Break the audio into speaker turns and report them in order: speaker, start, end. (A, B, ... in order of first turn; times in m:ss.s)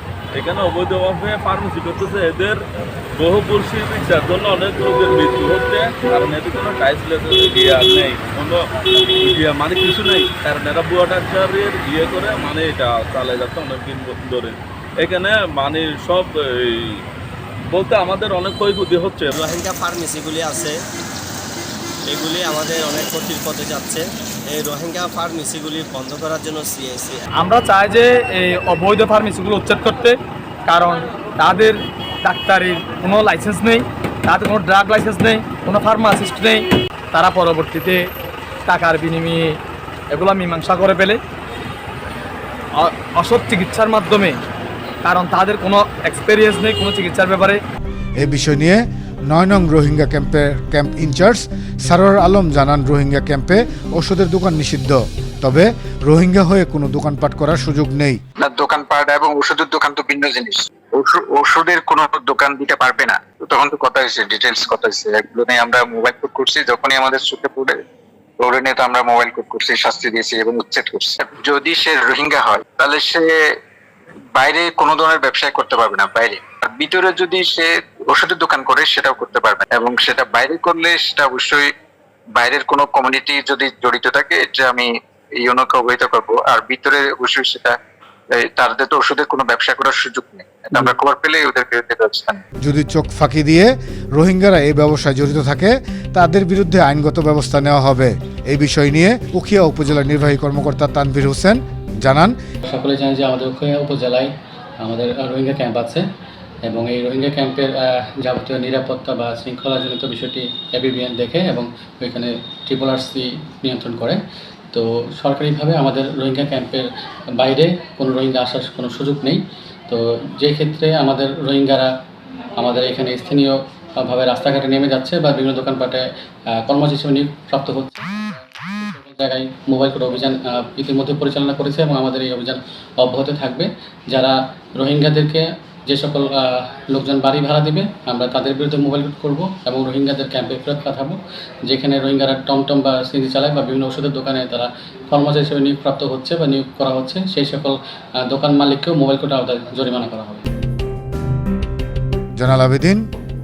0:00.4-0:02.6 A
0:03.2-0:17.0 A
0:17.7-0:19.5 A
0:19.4-0:20.8 B
0:22.1-0:27.2 B
0:27.4-0:38.0 C
0:38.7-0:39.5 C
0:40.1-0:41.2 C
0:42.8-0:44.4 C
0:45.0-0:47.6 C
0:48.2-0:58.2 D
0:58.4-1:07.8 E
1:08.4-1:13.3 E
1:14.4-1:21.7 E
1:22.4-1:27.8 E
1:28.3-1:32.4 E
1:32.6-1:42.4 D
1:42.6-1:46.1 F
1:46.6-1:54.2 F
1:54.7-2:01.9 F
2:02.6-2:30.5 F
2:32.4-2:33.0 D